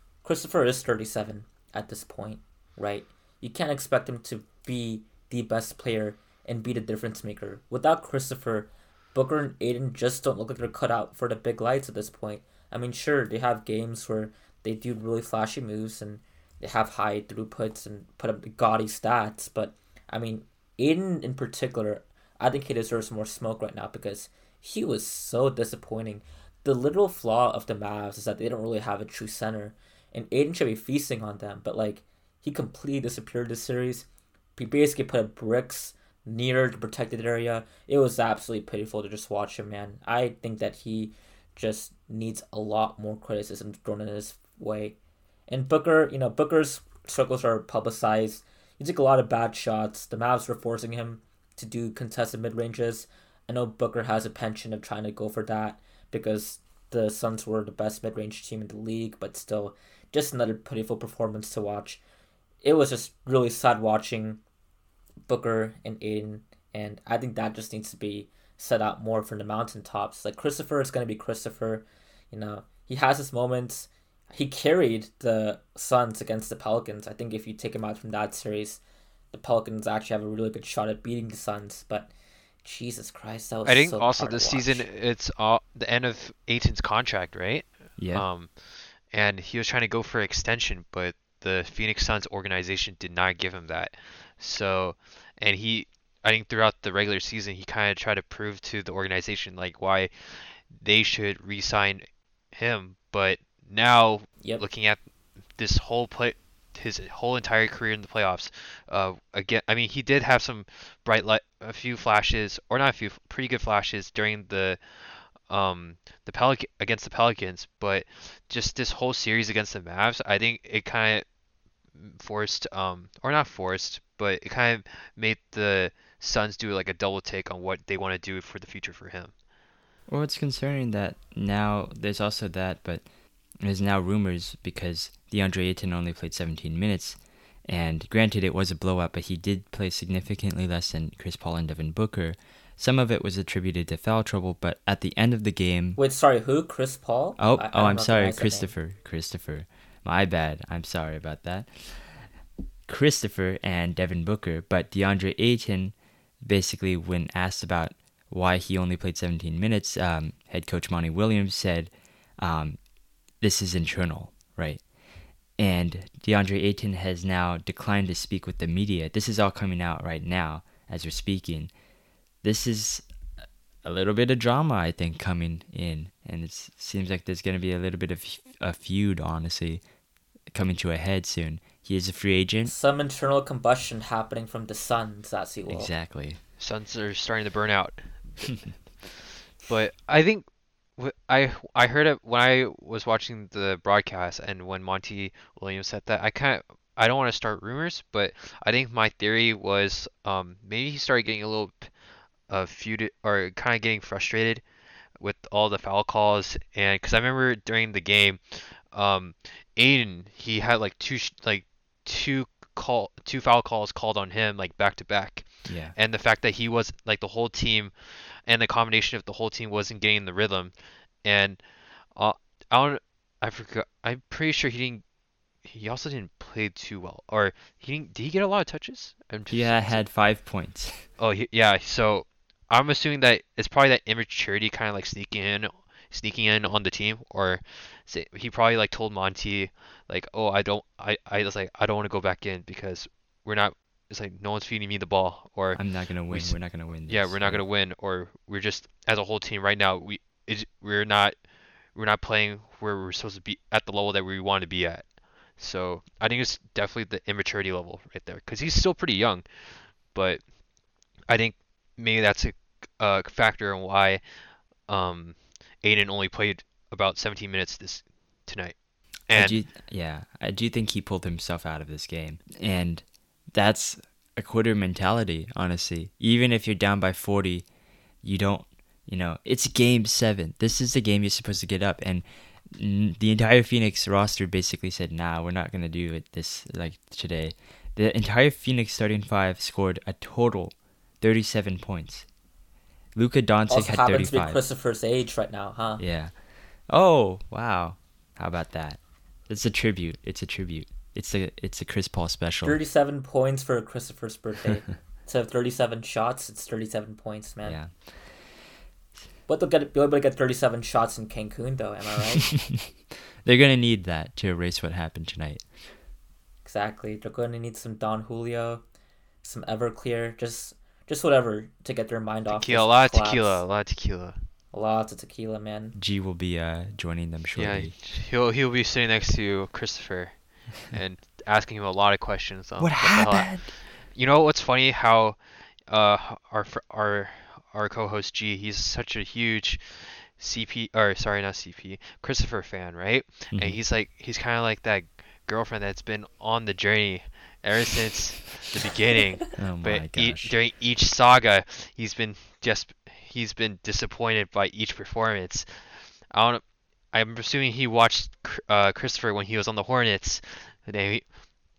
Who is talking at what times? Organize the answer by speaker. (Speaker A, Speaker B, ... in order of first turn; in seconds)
Speaker A: 0.2-45.0, 45.5-62.0, 62.6-64.4, 65.3-78.8, 79.3-82.1, 82.6-84.9, 146.0-148.7, 182.7-185.9, 293.7-296.0, 302.6-307.8, 309.5-312.6, 316.6-318.8, 319.4-323.6, 324.7-326.0
Speaker B: 83.7-105.0, 105.5-121.2, 122.0-129.3, 186.6-201.9, 202.5-204.7, 205.2-225.0, 225.6-230.0, 231.2-251.4, 251.9-260.4, 261.3-264.2, 264.8-269.6, 322.5-324.4, 327.6-361.3
Speaker C: 88.0-88.3, 130.1-133.1, 133.6-146.0, 147.4-152.3, 152.9-162.8, 163.4-164.9, 165.6-171.7, 172.4-173.1, 173.8-179.8, 180.5-182.7, 185.7-186.4, 215.7-215.9, 229.5-231.1, 245.7-247.6, 269.3-277.7, 278.2-292.3, 293.1-294.6, 296.0-296.4, 296.9-302.8, 307.6-308.3, 313.4-315.9, 326.0-327.9, 332.8-333.7, 343.5-343.8, 349.6-350.6